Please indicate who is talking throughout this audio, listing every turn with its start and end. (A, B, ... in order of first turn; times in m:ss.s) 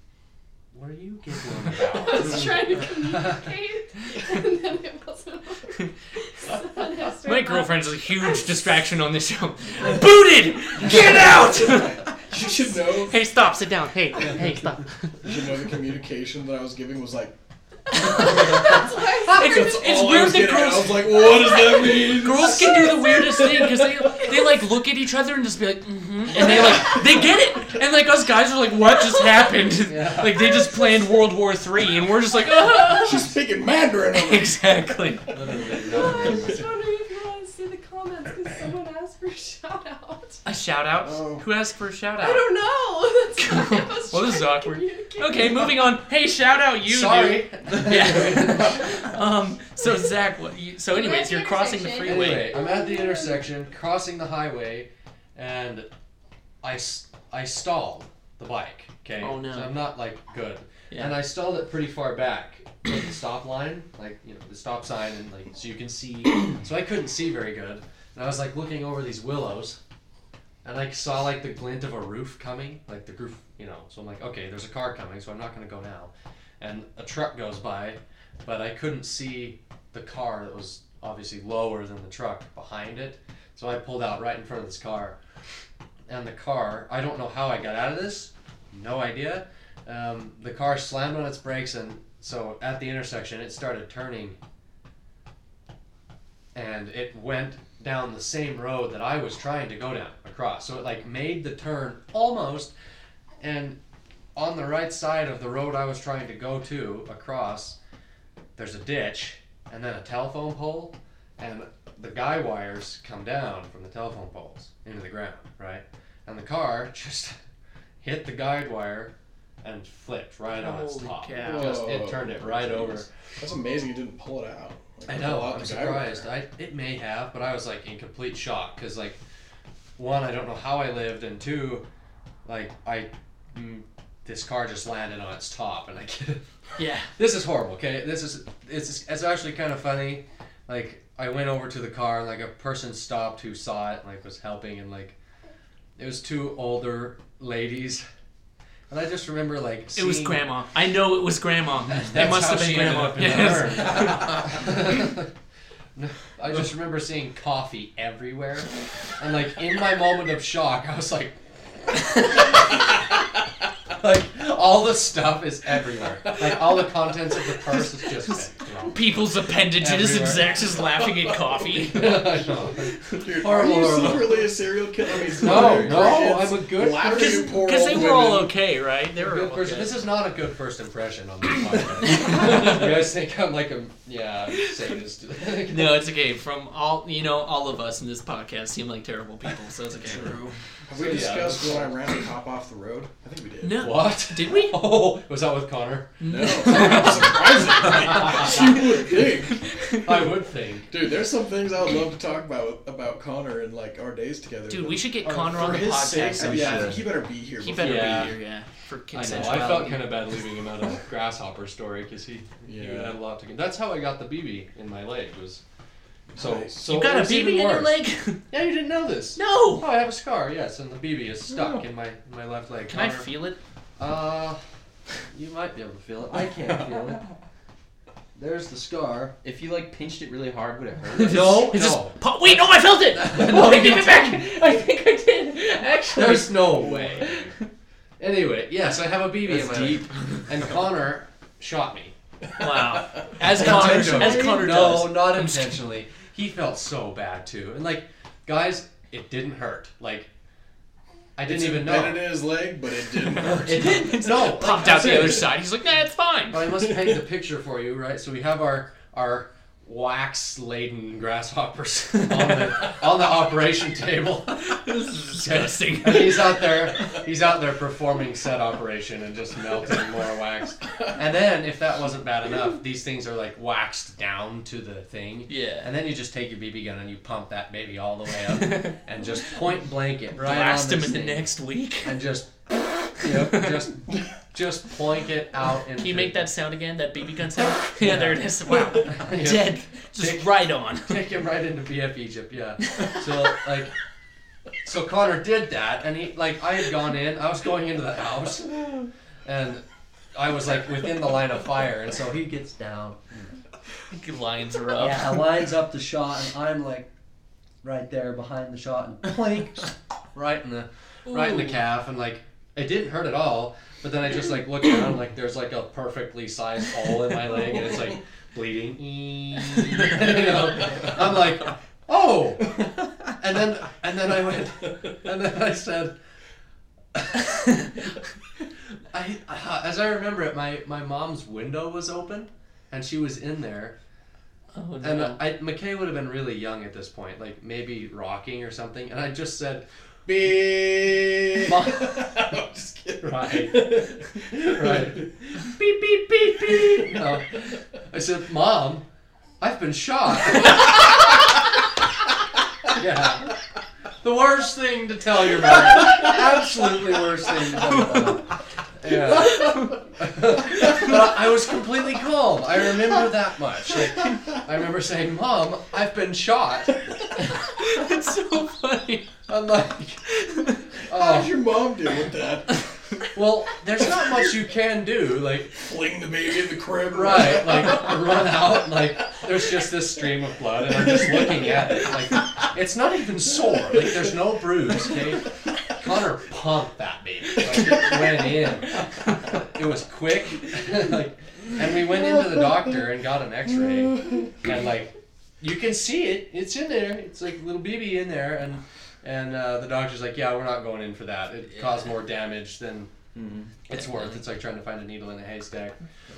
0:00.7-0:03.4 A
0:01.8-0:08.8 B
0:07.2-0:12.1 C
0:10.7-0:13.2 D
0:12.9-0:15.2 C
0:14.2-0:14.5 A
0:15.2-0:17.4 D
0:17.9-0:20.1 B
0:17.9-0:33.4 C
0:18.0-0:23.8 D
0:21.1-0:24.6 B
0:26.5-0:27.0 D
0:28.9-0:29.7 B
0:29.9-0:30.6 A
0:30.6-0:30.9 B
0:32.4-0:33.0 B
0:32.9-0:36.5 D
0:34.1-0:35.3 C
0:35.3-0:36.6 A
0:35.7-0:40.4 B
0:40.4-0:42.5 C
0:41.0-0:41.5 D
0:42.2-0:46.0 B
0:43.4-0:52.5 C
0:46.8-0:49.1 A
0:50.9-0:53.4 B
0:52.0-0:55.9 A
0:56.6-1:09.8 A
0:59.2-0:59.7 C
1:00.9-1:01.2 C
1:10.6-1:25.2 A
1:26.1-1:34.4 A
1:36.5-1:42.7 A
1:43.4-1:43.8 A
1:44.4-1:47.8 A
1:48.6-1:57.4 A
1:58.0-2:03.1 A
2:00.6-2:01.9 C
2:01.4-2:06.3 D
2:05.1-2:09.2 A
2:10.0-2:11.8 A
2:12.4-2:16.4 A
2:16.8-2:17.1 C
2:17.2-2:25.2 A
2:26.0-2:28.0 A
2:28.9-2:30.5 A
2:30.0-2:34.5 C
2:31.9-2:35.3 A
2:36.0-2:41.4 A
2:41.9-2:43.0 A
2:44.0-2:49.0 A
2:47.5-2:53.2 C
2:49.8-2:50.6 A
2:51.8-2:54.5 A
2:53.1-2:58.5 D
2:55.3-2:55.6 C
2:55.3-2:57.6 A
2:55.7-2:56.0 E
2:57.0-2:59.9 C
2:59.1-3:06.0 A
3:02.0-3:03.0 C
3:04.5-3:05.0 C
3:05.7-3:10.4 C
3:10.0-3:10.6 E
3:10.9-3:14.0 D
3:10.9-3:12.0 A
3:13.6-3:14.8 C
3:13.8-3:17.3 A
3:16.2-3:20.3 C
3:16.2-3:19.7 D
3:18.1-3:18.8 A
3:20.0-3:20.9 A
3:20.9-3:28.3 D
3:24.7-3:27.0 C
3:25.7-3:27.1 E
3:27.6-3:30.1 C
3:27.8-3:28.4 A
3:29.1-3:35.6 A
3:32.7-3:33.2 D
3:36.3-3:36.7 D
3:36.4-3:38.0 A
3:36.9-3:38.4 C
3:38.5-3:43.3 A
3:39.4-3:39.9 C
3:41.5-3:41.8 E
3:42.9-3:43.6 C
3:44.0-3:44.6 A
3:45.2-3:47.3 A
3:48.4-3:49.4 A
3:49.4-3:51.7 E
3:51.2-3:56.6 C
3:51.2-3:54.4 A
3:56.1-3:57.4 A
3:56.8-3:57.5 D
3:58.2-4:02.1 A
3:59.4-4:00.6 E
4:02.6-4:05.8 C
4:03.2-4:10.3 A
4:03.7-4:04.7 E
4:11.4-4:12.2 A
4:11.5-4:15.4 D
4:13.3-4:15.5 A
4:13.7-4:16.7 C
4:16.5-4:41.5 A
4:24.6-4:26.8 C
4:35.5-4:35.9 C
4:38.5-4:39.0 C
4:40.4-4:42.2 C
4:42.0-4:46.4 A
4:43.2-4:43.9 C
4:46.0-4:51.2 C
4:48.0-4:53.9 A
4:52.9-4:53.2 C
4:54.8-4:59.8 A
5:00.3-5:03.2 A
5:04.1-5:05.4 C
5:05.0-5:07.1 A
5:07.8-5:26.1 A
5:27.1-5:27.9 A
5:29.1-5:34.0 A
5:34.7-5:35.4 C
5:35.0-5:39.9 A
5:40.3-5:45.7 D
5:41.6-5:42.4 A
5:43.2-5:49.0 A
5:46.5-5:47.2 D
5:49.6-5:51.3 A
5:52.9-5:53.6 A
5:54.2-6:07.0 A
5:58.0-5:58.3 C
5:59.5-5:59.9 C
6:07.4-6:09.3 C
6:09.5-6:11.6 A
6:10.4-6:10.8 C
6:11.1-6:12.9 D
6:13.3-6:15.8 A
6:15.7-6:18.5 D
6:17.1-6:43.1 A
6:21.0-6:22.1 D
6:27.8-6:28.2 D
6:33.9-6:34.5 D
6:41.8-6:42.1 C
6:43.4-6:43.8 E
6:43.9-6:46.0 A
6:43.9-6:44.4 C